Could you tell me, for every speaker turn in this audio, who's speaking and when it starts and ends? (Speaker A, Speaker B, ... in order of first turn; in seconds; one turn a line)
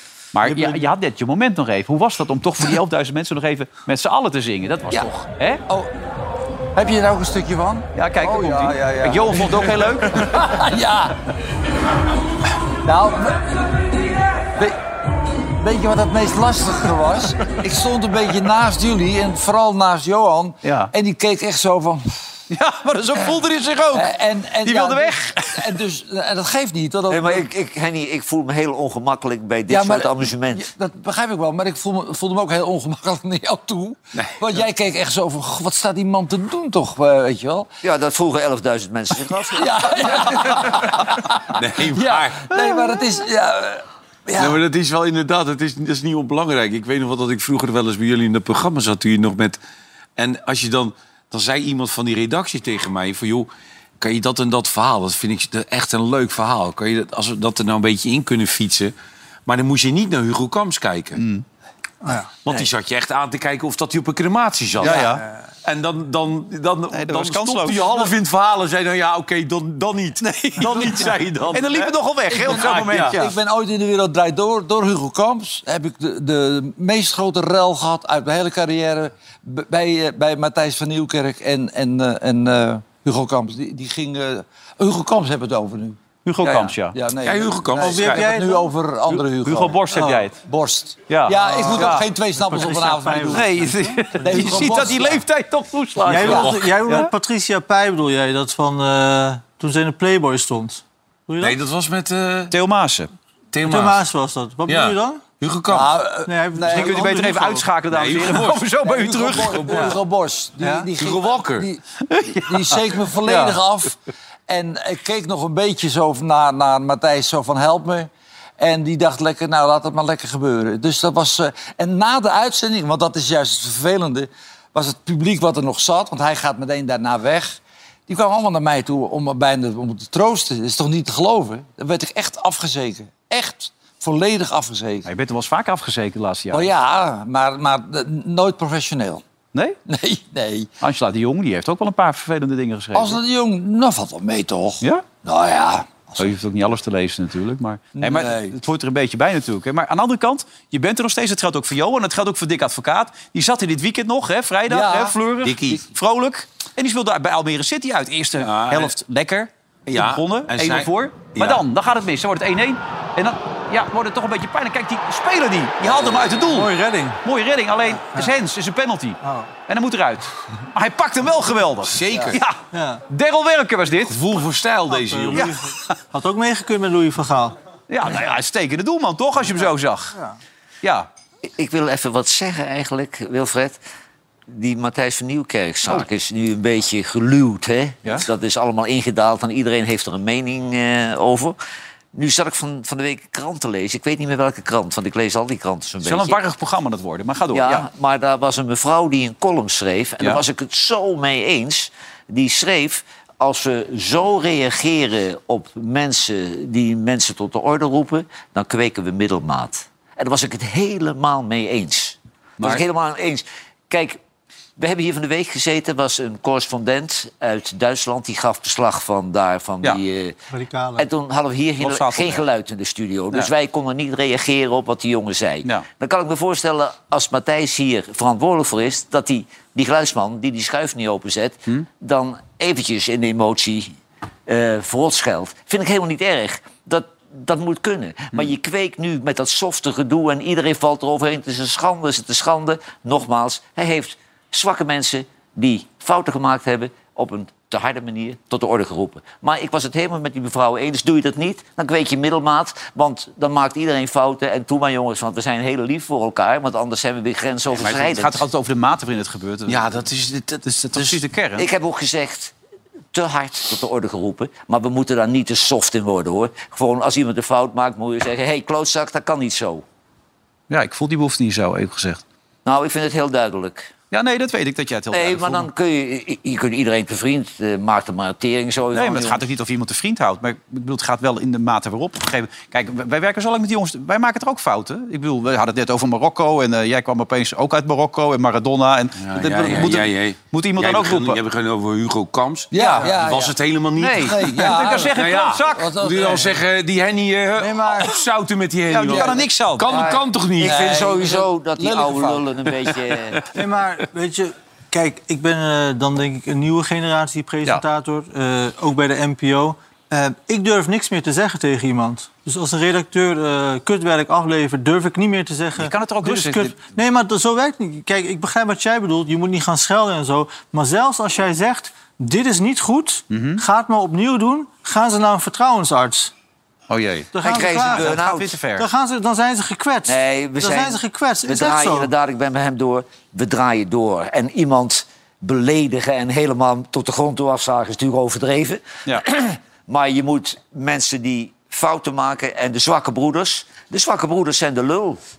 Speaker A: 0.3-5.6
Speaker B: 6.7-11.2
Speaker A: 7.9-10.4
Speaker B: 12.8-13.6
Speaker B: 15.6-22.3
Speaker A: 20.6-20.9
Speaker A: 22.5-24.1
Speaker B: 23.9-27.5
Speaker A: 24.6-25.6
Speaker C: 27.1-30.6
Speaker B: 29.7-37.7
Speaker C: 37.8-40.7
Speaker B: 39.5-44.6
Speaker D: 41.5-42.5
Speaker D: 44.4-49.6
Speaker D: 50.2-58.9
Speaker D: 59.5-61.2
Speaker A: 61.2-61.4
Speaker E: 62.0-62.3
Speaker D: 62.4-73.2
Speaker A: 64.8-65.2
Speaker A: 66.9-68.1
Speaker A: 70.2-73.3
Speaker B: 72.3-93.6
Speaker A: 86.2-87.0
Speaker D: 87.2-88.3
Speaker E: 87.8-88.7
Speaker A: 89.3-90.4
Speaker A: 91.1-92.0
Speaker E: 91.4-94.6
Speaker A: 93.3-97.1
Speaker B: 94.2-95.2
Speaker D: 96.0-97.0
Speaker E: 96.0-101.6
Speaker D: 101.4-102.5
Speaker A: 102.5-103.1
Speaker D: 103.5-104.0
Speaker E: 103.6-105.2
Speaker D: 104.7-106.0
Speaker B: 105.7-107.0
Speaker E: 106.2-107.7
Speaker A: 106.7-109.9
Speaker D: 107.9-108.7
Speaker B: 108.8-114.0
Speaker E: 110.6-110.9
Speaker D: 111.0-111.7
Speaker A: 112.1-113.6
Speaker B: 114.5-135.1
Speaker A: 135.0-136.7
Speaker B: 136.5-139.2
Speaker B: 139.9-140.7
Speaker A: 140.8-143.2
Speaker B: 142.9-146.3
Speaker A: 144.8-145.1
Speaker A: 146.2-166.7
Speaker B: 147.9-148.6
Speaker B: 154.7-155.2
Speaker D: 155.4-155.9
Speaker D: 158.4-158.9
Speaker D: 159.8-161.6
Speaker D: 165.9-166.3
Speaker E: 166.5-167.2
Speaker A: 167.2-172.6
Speaker E: 169.2-169.5
Speaker D: 171.8-172.4
Speaker E: 172.7-173.0
Speaker A: 173.1-174.2
Speaker D: 174.0-175.6
Speaker E: 174.9-177.6
Speaker A: 177.9-180.1
Speaker A: 180.8-181.1
Speaker C: 181.6-183.8
Speaker C: 184.5-191.6
Speaker C: 192.1-196.4
Speaker A: 196.0-197.9
Speaker C: 197.5-214.2
Speaker A: 212.6-212.8
Speaker C: 214.8-220.3
Speaker E: 220.5-221.1
Speaker C: 221.0-233.9
Speaker A: 221.8-222.4
Speaker C: 234.5-258.4
Speaker A: 257.7-260.0
Speaker D: 259.7-261.2
Speaker A: 260.7-261.7
Speaker C: 261.6-262.5
Speaker C: 263.1-269.8
Speaker A: 270.7-272.2
Speaker C: 272.6-273.9
Speaker A: 274.1-275.7
Speaker C: 275.1-279.4
Speaker A: 278.9-291.4
Speaker D: 289.2-300.9
Speaker B: 292.7-293.6
Speaker A: 292.7-293.1
Speaker A: 294.0-295.8
Speaker B: 294.2-296.6
Speaker E: 297.6-298.0
Speaker B: 297.8-298.1
Speaker A: 298.9-299.9
Speaker B: 299.1-300.0
Speaker C: 299.9-303.4
Speaker B: 300.6-302.5
Speaker E: 303.5-326.3
Speaker A: 315.8-316.8
Speaker A: 323.3-323.6
Speaker A: 326.9-328.9
Speaker E: 327.3-328.2
Speaker C: 327.4-328.5
Speaker E: 328.8-332.1
Speaker C: 330.1-345.2